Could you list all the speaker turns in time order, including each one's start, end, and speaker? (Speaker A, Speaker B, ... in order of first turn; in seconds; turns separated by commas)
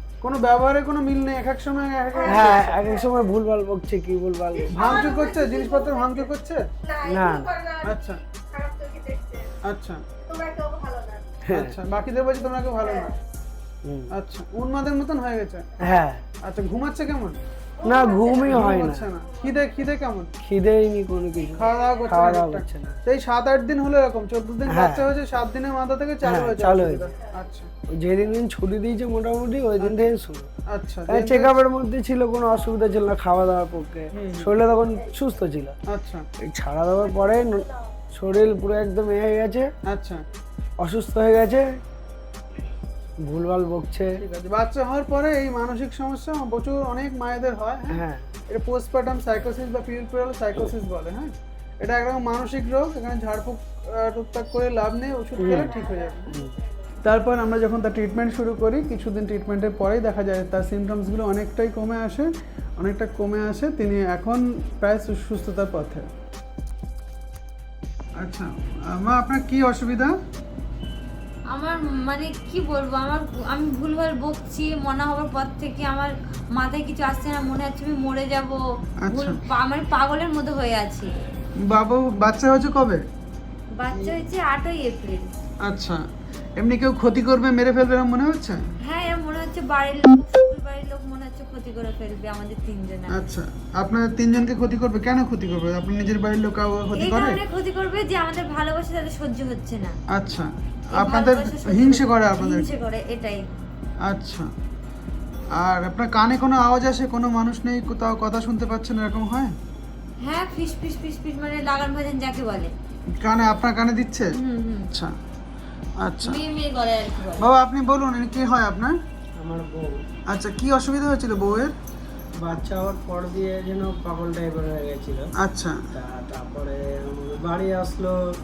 Speaker A: 0.2-2.8, Speaker B: 2.1-3.3, Speaker C: 2.2-5.2, Speaker B: 4.5-6.3, Speaker A: 4.7-6.7, Speaker B: 6.8-9.5, Speaker C: 7.0-7.6, Speaker A: 7.8-8.2, Speaker A: 9.6-10.0, Speaker B: 10.2-11.4, Speaker C: 11.4-11.8, Speaker A: 11.5-13.1, Speaker B: 12.8-13.1, Speaker A: 14.1-15.8, Speaker C: 15.8-16.2, Speaker A: 16.4-17.4, Speaker B: 17.8-18.6, Speaker C: 17.8-19.1, Speaker A: 18.5-20.3, Speaker C: 20.4-23.0, Speaker A: 21.6-27.7, Speaker C: 24.7-25.1, Speaker C: 26.2-27.1, Speaker C: 27.9-30.5, Speaker A: 29.8-30.1, Speaker A: 30.7-31.5, Speaker C: 31.1-35.7, Speaker A: 34.1-34.5, Speaker A: 35.9-36.2, Speaker C: 36.4-39.7, Speaker A: 39.9-40.2, Speaker C: 40.8-41.8, Speaker C: 43.2-44.1, Speaker A: 44.2-48.0, Speaker C: 47.9-48.3, Speaker A: 48.5-56.4, Speaker C: 55.4-55.8, Speaker B: 55.5-56.7, Speaker C: 56.3-56.5, Speaker A: 57.0-66.1, Speaker A: 68.2-70.2, Speaker D: 71.5-81.1, Speaker A: 79.0-79.4, Speaker A: 81.6-83.0, Speaker D: 83.7-85.3, Speaker A: 85.6-86.0, Speaker A: 86.6-88.6, Speaker D: 88.8-93.3, Speaker A: 93.1-97.4, Speaker D: 96.9-100.0, Speaker A: 100.1-102.7, Speaker D: 100.9-103.5, Speaker A: 104.0-104.5, Speaker A: 105.5-109.5, Speaker D: 110.2-112.7, Speaker A: 113.2-114.3, Speaker D: 114.3-114.9, Speaker A: 116.0-116.4, Speaker D: 116.2-117.5, Speaker A: 117.4-118.9, Speaker C: 119.4-120.0, Speaker A: 120.3-121.7, Speaker C: 122.4-125.3, Speaker A: 125.4-125.9, Speaker C: 125.9-128.2